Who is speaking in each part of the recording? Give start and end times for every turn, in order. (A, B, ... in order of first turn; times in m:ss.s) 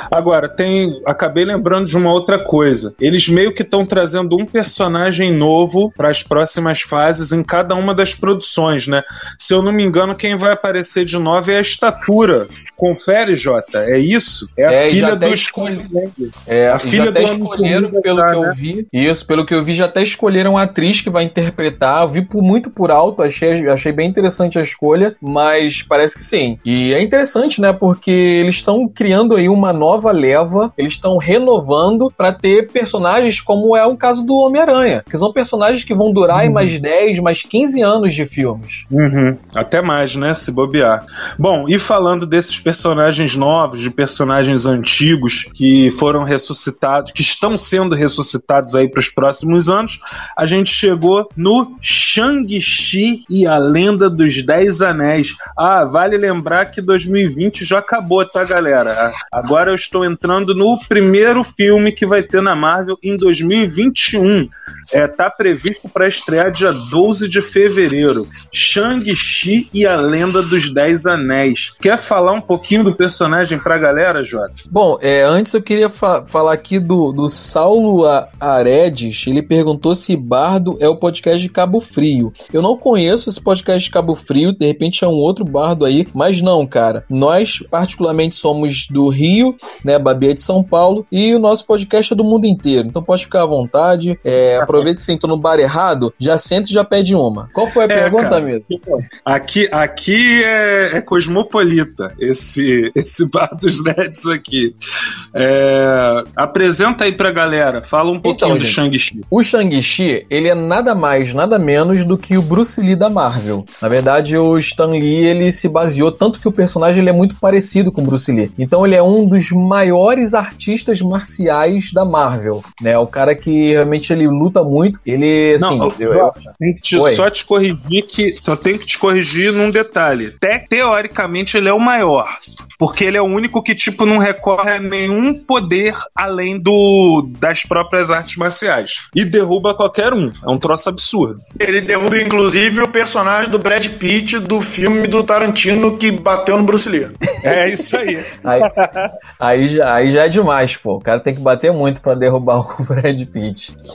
0:00.1-0:18.6 A
0:14.7-0:15.8 B
0:16.5-0:38.8 B
0:36.3-0:36.7 A
0:38.9-1:14.6 A
1:14.7-1:38.7 B
1:34.6-1:34.9 A
1:37.9-1:44.7 A
1:45.4-1:49.2 A
1:48.2-1:48.8 B
1:49.3-2:07.2 B
2:05.6-2:21.4 A
2:21.6-2:27.2 C
2:27.4-2:29.1 A
2:27.5-2:28.7 B
2:29.4-2:33.7 B